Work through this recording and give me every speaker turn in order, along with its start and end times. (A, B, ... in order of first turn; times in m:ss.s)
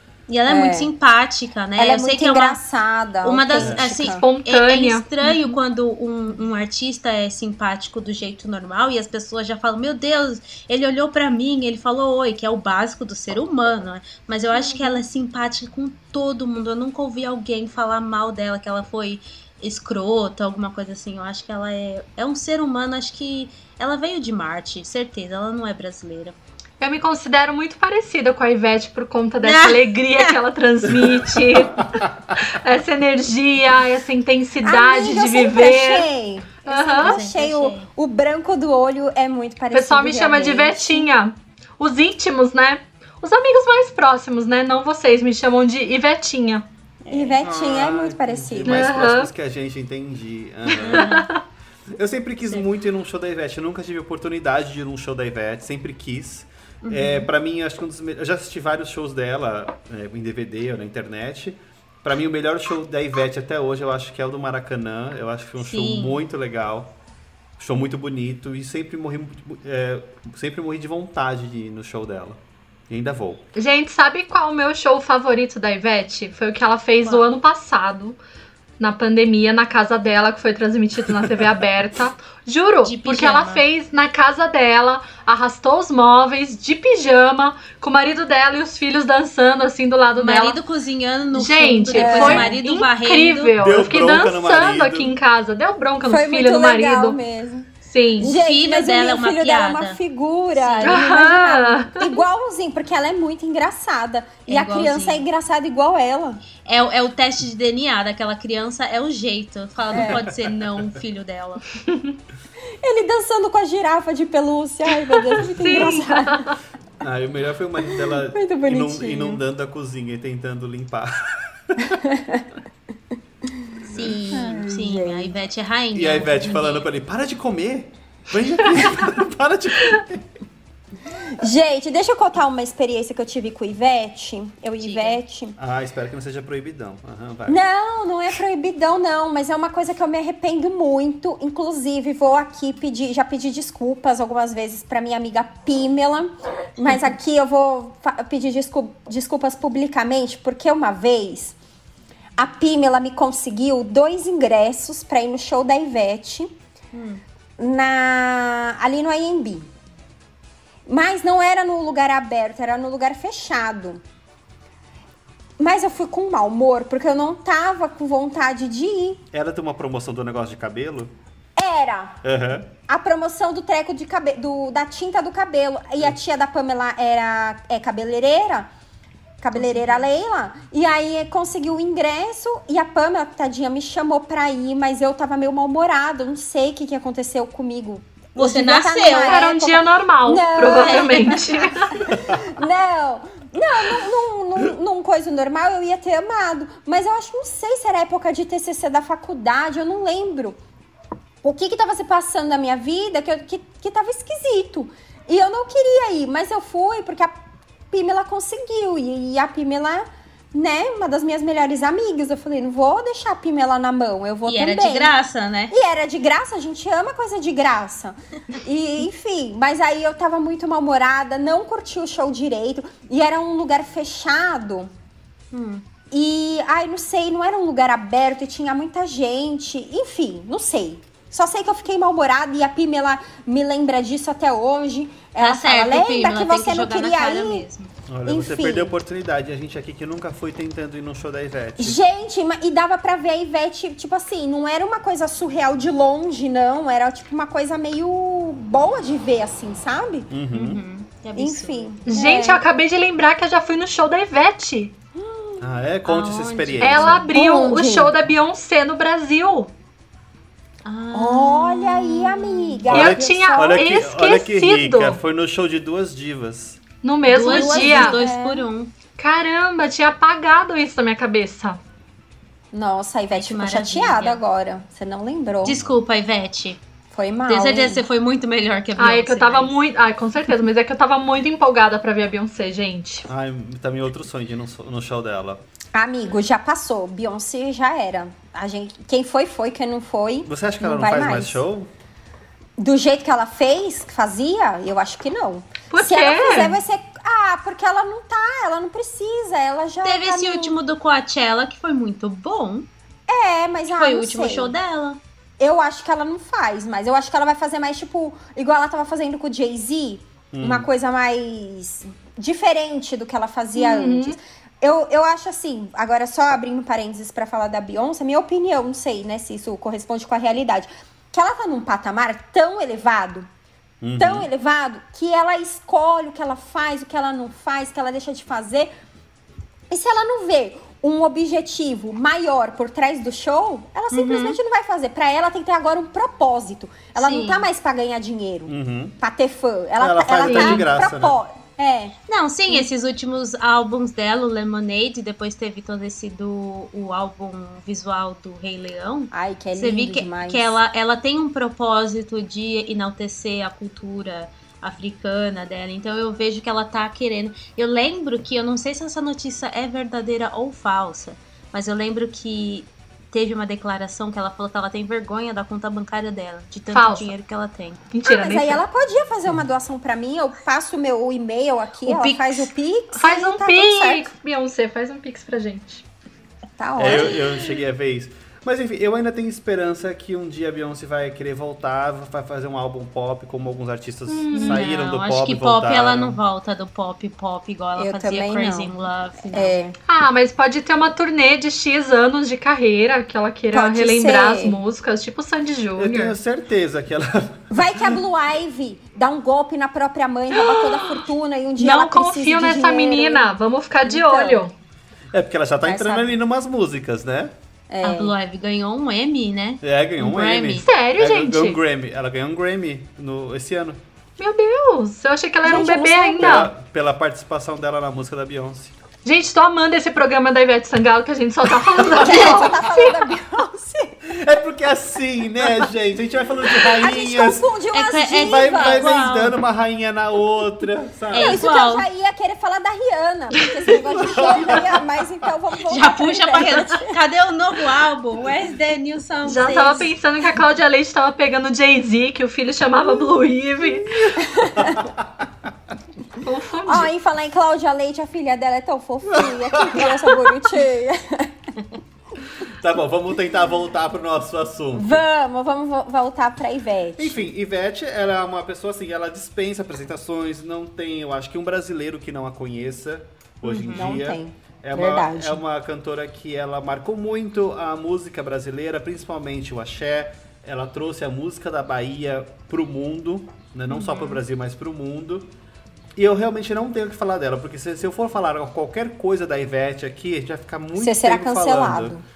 0:00.3-0:02.6 A
0:00.5-0:00.9 B
0:01.8-0:04.2 B
0:03.2-0:26.4 A
0:03.6-0:03.9 C
0:03.9-0:05.1 D
0:14.5-0:15.0 B
0:26.8-0:36.1 D
0:29.4-0:30.4 A
0:34.6-0:41.1 B
0:36.6-0:37.2 D
0:37.0-0:37.9 A
0:39.7-0:46.6 D
0:47.0-0:47.4 A
0:47.1-0:49.0 B
0:47.4-0:51.1 C
0:48.6-0:49.3 D
0:50.7-0:51.3 A
0:51.0-0:51.4 D
0:51.9-1:06.9 C
0:56.8-0:57.3 A
1:05.6-1:06.2 A
1:07.6-1:13.4 C
1:13.6-1:18.2 D
1:17.0-1:17.3 A
1:18.8-1:30.6 D
1:21.1-1:21.4 C
1:22.8-1:23.6 A
1:30.2-1:33.5 A
1:31.3-1:37.2 D
1:31.9-1:32.6 B
1:33.6-1:35.1 C
1:36.0-1:46.4 B
1:37.8-1:38.3 D
1:38.2-1:40.0 A
1:40.6-1:41.1 A
1:40.8-1:42.2 D
1:44.5-1:45.3 A
1:46.6-1:51.6 A
1:49.9-1:50.3 B
1:50.0-1:50.8 C
1:52.8-1:56.4 B
1:55.4-1:56.6 D
1:57.0-2:02.0 C
1:57.9-1:59.4 B
2:01.9-2:02.4 B
2:03.8-2:05.3 B
2:03.9-2:06.9 A
2:05.9-2:10.2 C
2:11.4-2:15.6 B
2:14.8-2:15.2 A
2:15.6-2:17.6 C
2:17.5-2:31.6 B
2:32.4-2:36.5 B
2:36.9-2:37.2 A
2:37.6-2:39.7 B
2:40.9-2:44.0 B
2:45.6-2:49.2 B
2:49.3-2:51.1 C
2:51.6-2:52.2 B
2:52.2-2:52.7 C
2:52.9-2:58.7 B
2:59.4-3:20.6 B
2:59.6-3:00.1 A
3:08.4-3:09.5 A
3:09.2-3:12.0 D
3:10.7-3:11.7 A
3:21.4-3:27.3 B
3:27.9-3:35.1 B
3:34.5-3:35.7 A
3:35.7-3:44.9 B
3:45.5-3:45.8 A
3:46.1-3:57.7 B
3:55.4-3:57.9 A
3:58.1-4:02.0 C
3:58.3-3:59.0 B
4:01.8-4:10.3 B
4:10.3-4:10.8 C
4:10.5-4:12.0 A
4:11.4-4:12.6 B
4:12.1-4:14.9 D
4:15.2-4:15.6 B
4:15.6-4:17.2 C
4:16.1-4:17.3 A
4:16.8-4:19.7 D
4:17.3-4:18.1 B
4:20.8-4:22.9 A
4:21.1-4:23.8 B
4:22.9-4:25.2 D
4:22.9-4:26.8 C
4:27.0-4:28.2 D
4:27.3-4:28.9 A
4:27.5-4:28.7 B
4:29.2-4:31.8 D
4:32.7-4:35.8 B
4:33.3-4:34.4 A
4:35.6-4:36.8 A
4:37.1-4:38.0 B
4:37.5-4:39.8 A
4:39.0-4:43.3 D
4:43.3-4:45.6 C
4:45.9-4:51.6 B
4:50.5-4:51.9 C
4:52.8-5:00.8 B
4:55.9-4:56.8 D
5:00.0-5:02.9 A
5:03.3-5:04.8 B
5:03.9-5:05.2 A
5:05.6-5:23.5 B
5:10.5-5:10.9 C
5:13.8-5:14.4 D
5:24.0-5:24.5 C
5:24.2-5:28.9 B
5:29.9-5:42.2 B
5:34.1-5:34.6 A
5:37.2-5:37.7 A
5:38.7-5:39.2 C
5:40.0-5:41.4 C
5:42.3-6:08.0 A
5:49.3-5:50.8 B
6:06.9-6:07.3 D
6:08.1-6:08.8 D
6:08.2-6:14.3 B
6:12.0-6:12.7 A
6:13.1-6:16.0 D
6:16.8-6:17.6 B
6:17.0-6:26.4 C
6:24.3-6:24.9 D
6:24.5-6:29.8 A
6:28.0-6:28.9 B
6:29.5-6:30.0 B
6:30.1-6:36.4 D
6:33.7-6:34.8 B
6:36.0-6:38.2 C
6:37.7-6:44.7 B
6:40.5-6:41.3 D
6:41.8-6:44.7 D
6:45.3-6:47.5 C
6:45.8-6:46.3 B
6:47.9-6:48.4 B
6:48.0-6:50.9 A
6:49.8-6:54.0 C
6:50.8-6:51.8 D
6:54.4-6:56.7 D
6:55.6-6:56.6 B
6:56.4-6:58.9 C
6:59.2-7:03.3 D
7:02.0-7:02.7 C
7:02.0-7:04.2 B
7:04.2-7:07.7 C
7:06.8-7:09.1 B
7:07.9-7:09.6 A
7:08.4-7:11.7 C
7:11.3-7:12.1 A
7:11.4-7:17.1 B
7:13.9-7:15.0 C
7:15.9-7:20.1 A
7:19.5-7:24.4 D
7:24.3-7:25.1 B
7:24.8-7:25.5 C
7:26.4-7:27.1 D
7:26.9-7:31.6 B
7:29.3-7:30.6 C
7:32.6-7:35.2 C
7:34.9-7:37.4 B
7:37.2-7:55.5 C
7:43.6-7:44.2 A
7:43.9-7:45.6 B
7:53.9-7:54.4 A
7:56.2-8:02.2 C
8:01.0-8:02.2 B